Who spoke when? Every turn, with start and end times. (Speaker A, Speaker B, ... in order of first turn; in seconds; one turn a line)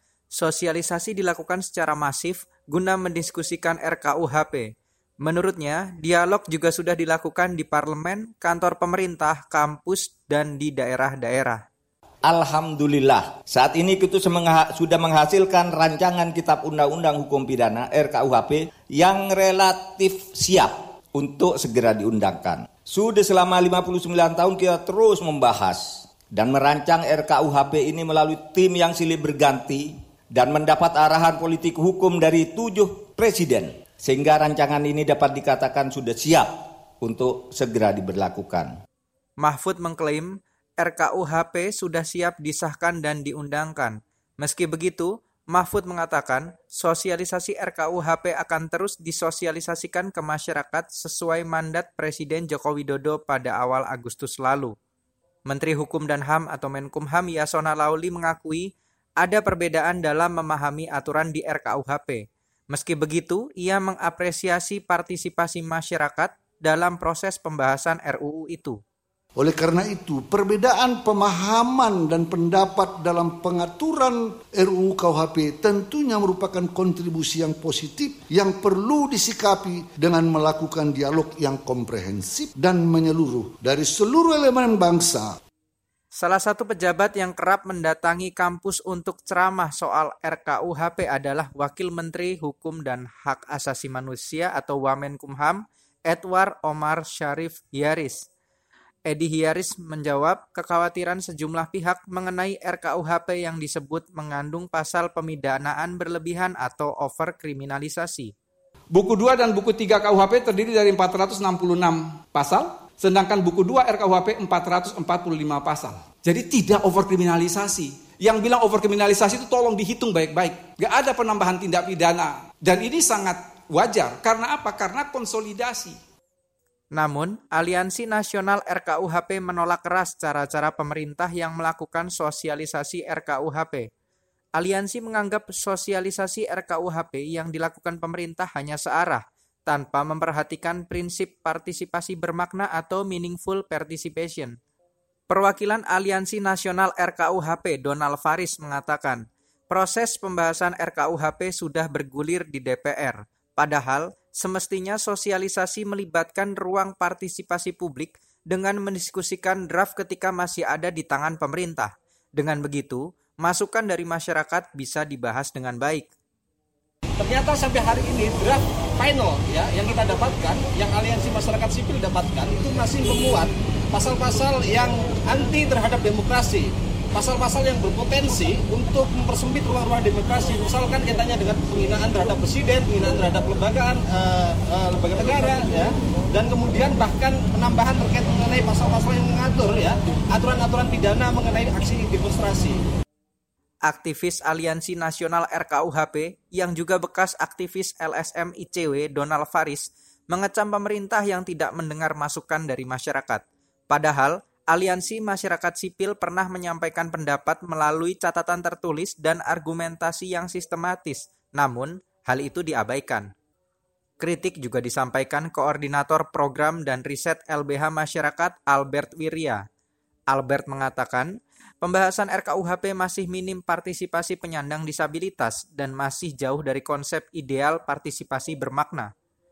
Speaker A: 0.3-4.7
Speaker A: 5.2-11.6
Speaker B: 12.3-38.7
Speaker A: 39.4-54.8
Speaker A: 55.5-68.8
Speaker C: 69.4-85.3
Speaker A: 86.2-98.2
Speaker A: 99.1-108.3
Speaker D: 108.9-126.0
Speaker A: 126.9-133.9
Speaker A: 134.6-144.6
Speaker A: 145.3-166.1
Speaker E: 167.2-192.8
Speaker A: 193.9-213.3
Speaker A: 214.2-219.6
Speaker A: 220.3-229.1